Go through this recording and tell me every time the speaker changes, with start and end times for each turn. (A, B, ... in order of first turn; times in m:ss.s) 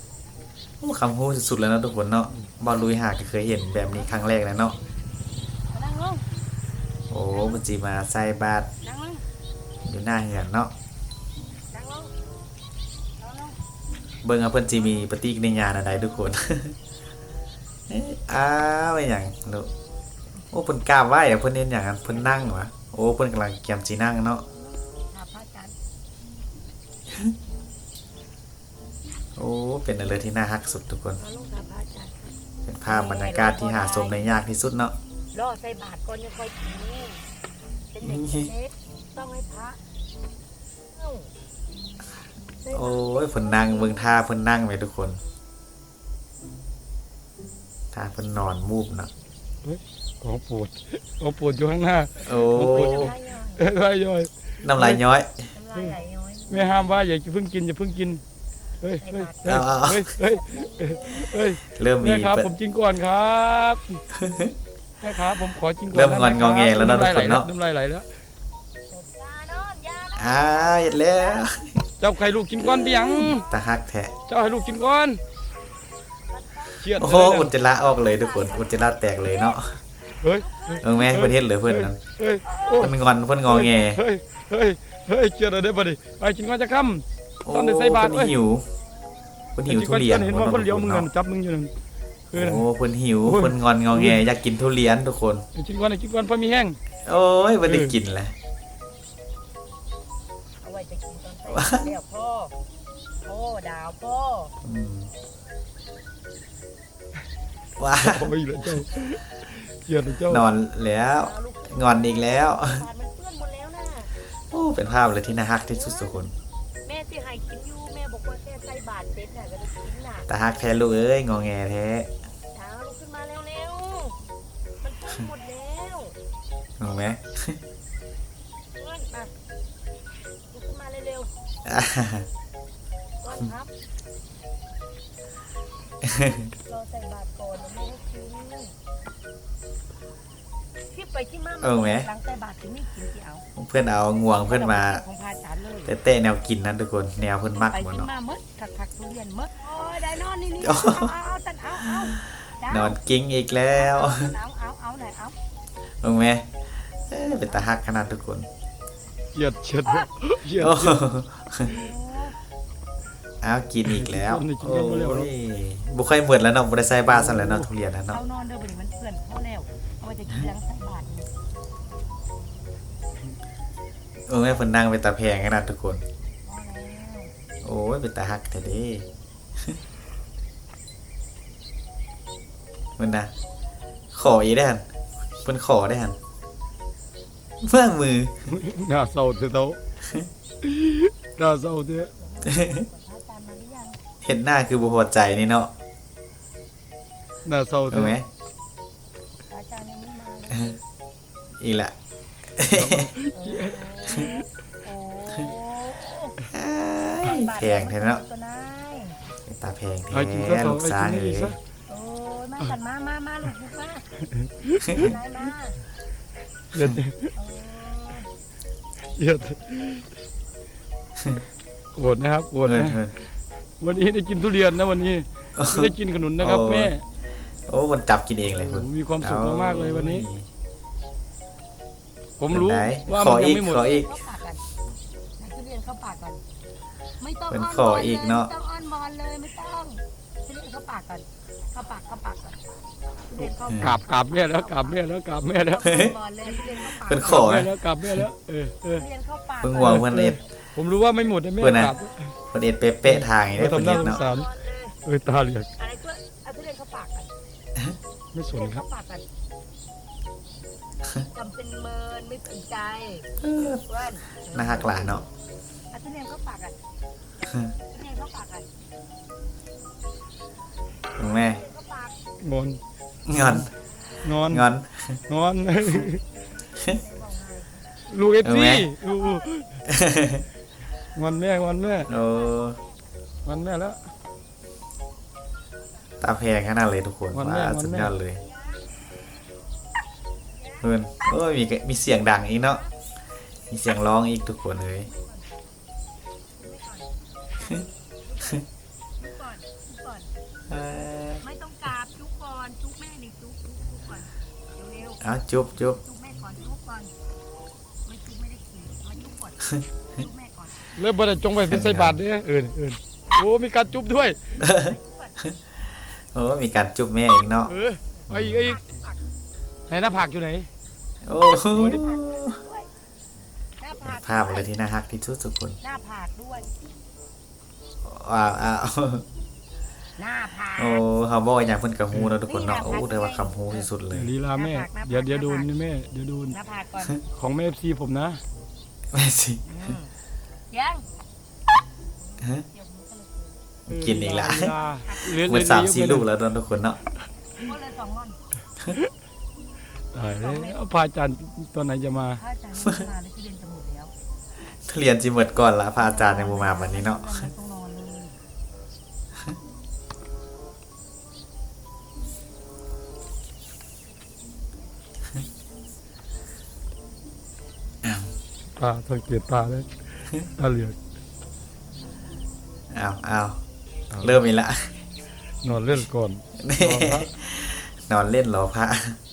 0:00.8-0:04.8 A
0:05.7-0:06.2 B
0:07.1-0:08.7 A
0:08.8-0:09.2 B
0:09.8-0:10.7 A
0:11.7-0:12.1 B
0:13.2-0:13.6 B
0:14.2-0:16.8 A
0:17.9-0:19.7 A
0:20.5-0:24.4 A
0:22.2-0:22.5 B
0:25.1-0:25.7 B
0:29.4-0:31.2 A
0:31.2-0:32.3 B
0:32.6-0:34.9 A
0:32.8-0:34.4 B
0:35.3-0:37.2 B
0:37.9-0:39.8 B
0:38.0-0:38.5 A
0:40.9-0:41.3 B
0:42.6-0:44.2 B
0:42.7-0:45.2 A
0:47.9-0:49.1 A
0:49.6-0:55.0 C
0:52.2-0:53.1 A
0:52.5-0:53.7 B
0:54.6-0:55.5 A
0:55.5-0:56.8 B
0:56.5-0:58.2 C
0:58.8-1:04.0 C
0:59.0-0:59.7 B
0:59.4-1:00.1 A
1:00.2-1:01.6 B
1:01.7-1:02.5 A
1:04.1-1:04.5 A
1:05.0-1:08.1 C
1:05.9-1:07.5 A
1:08.9-1:11.5 B
1:10.2-1:11.8 A
1:12.0-1:13.4 C
1:12.6-1:14.1 A
1:13.2-1:14.8 B
1:14.3-1:15.2 C
1:16.3-1:19.6 B
1:16.8-1:17.5 C
1:17.0-1:19.8 A
1:20.2-1:22.9 C
1:20.4-1:21.0 B
1:20.8-1:22.0 A
1:22.4-1:22.9 B
1:22.8-1:24.0 A
1:23.4-1:28.4 C
1:27.4-1:28.7 A
1:28.9-1:29.6 B
1:29.6-1:31.1 A
1:29.6-1:31.7 C
1:32.3-1:32.7 C
1:32.3-1:35.4 A
1:33.2-1:34.2 C
1:35.5-1:36.8 C
1:37.0-1:38.3 A
1:37.6-1:38.0 C
1:40.6-1:42.5 B
1:41.5-1:41.8 A
1:43.2-1:44.5 B
1:44.6-1:45.1 A
1:47.8-1:48.3 A
1:48.0-1:50.4 C
1:50.2-1:52.8 A
1:51.1-1:54.1 B
1:54.4-1:56.3 A
1:55.7-1:56.2 B
1:56.8-2:00.3 B
2:00.3-2:02.1 A
2:02.5-2:04.2 B
2:04.8-2:06.2 B
2:06.8-2:07.6 A
2:08.8-2:09.3 B
2:10.5-2:11.3 B
2:11.6-2:12.3 A
2:13.2-2:13.7 B
2:16.0-2:16.5 A
2:16.6-2:18.7 B
2:20.9-2:23.4 B
2:21.6-2:22.1 A
2:23.6-2:25.0 A
2:24.4-2:25.9 B
2:25.8-2:28.1 A
2:27.6-2:33.0 B
2:30.6-2:31.1 A
2:32.0-2:34.3 A
2:33.7-2:35.4 B
2:36.0-2:36.4 A
2:37.1-2:38.5 A
2:39.3-2:41.0 C
2:39.8-2:40.1 B
2:40.6-2:41.7 A
2:41.7-2:42.4 B
2:43.4-2:48.2 A
2:43.8-2:45.3 C
2:47.1-2:47.7 C
2:48.1-2:51.3 B
2:54.3-2:56.0 A
2:56.4-2:57.3 B
2:57.6-2:59.1 A
3:03.0-3:03.3 A
3:04.1-3:04.8 A
3:05.4-3:06.2 A
3:07.6-3:08.3 A
3:08.5-3:09.8 C
3:10.0-3:10.3 A
3:10.6-3:12.1 C
3:12.2-3:14.0 B
3:12.4-3:12.8 A
3:14.2-3:15.7 A
3:17.4-3:18.2 C
3:17.9-3:18.2 A
3:19.5-3:20.8 B
3:21.6-3:21.9 A
3:22.6-3:23.1 A
3:22.7-3:24.3 C
3:23.3-3:26.4 B
3:26.5-3:28.2 A
3:27.2-3:29.2 B
3:29.4-3:31.6 A
3:30.1-3:31.6 C
3:31.9-3:34.0 B
3:34.3-3:35.1 C
3:34.8-3:35.8 B
3:36.7-3:37.3 C
3:37.4-3:38.3 B
3:39.1-3:40.1 C
3:41.9-3:43.0 C
3:42.6-3:43.1 A
3:43.8-3:47.0 C
3:45.6-3:46.9 A
3:47.7-3:50.5 A
3:48.5-3:50.3 C
3:52.4-3:53.9 C
3:52.5-3:54.2 A
3:53.7-3:54.6 B
3:55.4-3:56.4 B
3:57.2-4:05.0 B
3:57.5-3:58.5 A
4:03.7-4:03.9 A
4:03.8-4:06.0 C
4:05.6-4:07.5 B
4:06.7-4:09.0 C
4:07.0-4:07.7 A
4:09.0-4:10.1 B
4:09.6-4:10.4 A
4:09.8-4:12.3 C
4:11.6-4:11.9 A
4:12.5-4:14.2 A
4:13.0-4:14.5 C
4:13.6-4:15.0 B
4:15.0-4:15.7 C
4:15.8-4:17.3 B
4:18.3-4:18.8 C
4:18.5-4:19.2 B
4:21.2-4:25.3 B
4:23.4-4:23.8 A
4:24.4-4:25.2 A
4:25.9-4:26.8 B
4:27.8-4:28.7 B
4:31.2-4:31.6 A
4:31.2-4:32.2 B
4:32.4-4:32.8 C
4:33.2-4:33.7 A
4:34.2-4:34.7 C
4:34.4-4:35.2 A
4:35.3-4:36.2 C
4:36.0-4:38.0 B
4:38.1-4:39.7 C
4:38.4-4:38.9 A
4:39.1-4:39.5 B
4:39.8-4:40.4 A
4:41.1-4:42.1 C
4:42.1-4:42.8 A
4:42.1-4:43.1 B
4:43.4-4:44.0 C
4:46.2-4:48.4 A
4:47.3-4:48.1 C
4:48.4-4:48.8 B
4:50.8-4:52.8 A
4:52.5-4:52.9 B
4:53.7-4:55.1 A
4:55.0-4:55.5 B
4:56.6-4:58.7 B
4:59.2-5:00.3 B
5:00.7-5:01.4 A
5:01.4-5:05.2 B
5:05.2-5:06.0 A
5:05.8-5:07.1 B
5:08.0-5:10.9 B
5:10.9-5:14.4 C
5:11.7-5:12.2 A
5:14.6-5:15.5 A
5:14.6-5:15.4 B
5:16.3-5:17.7 A
5:17.7-5:18.8 C
5:18.1-5:19.2 B
5:18.3-5:18.8 A
5:19.9-5:20.7 C
5:21.2-5:22.6 A
5:21.5-5:22.9 B
5:21.7-5:22.0 C
5:23.8-5:24.7 B
5:24.0-5:25.8 A
5:25.8-5:26.7 B
5:28.0-5:29.2 A
5:30.2-5:31.0 B
5:30.8-5:34.3 A
5:32.4-5:33.9 B
5:34.1-5:36.6 C
5:34.5-5:35.7 B
5:36.5-5:37.2 B
5:37.2-5:38.4 C
5:39.1-5:39.6 A
5:39.6-5:40.1 B
5:40.7-5:41.0 B
5:42.2-5:43.6 B
5:42.4-5:42.6 A
5:43.9-5:44.8 A
5:43.9-5:46.3 C
5:45.0-5:45.3 B
5:45.3-5:47.0 A
5:47.6-5:48.4 B
5:50.1-5:52.4 C
5:50.2-5:50.8 B
5:52.3-5:54.1 B
5:54.8-5:57.5 A
5:56.0-5:58.4 B
6:08.0-6:08.3 A
6:08.8-6:11.0 C
6:12.9-6:13.6 A
6:14.1-6:14.4 C
6:14.2-6:14.9 A
6:15.6-6:17.3 C
6:16.6-6:19.2 A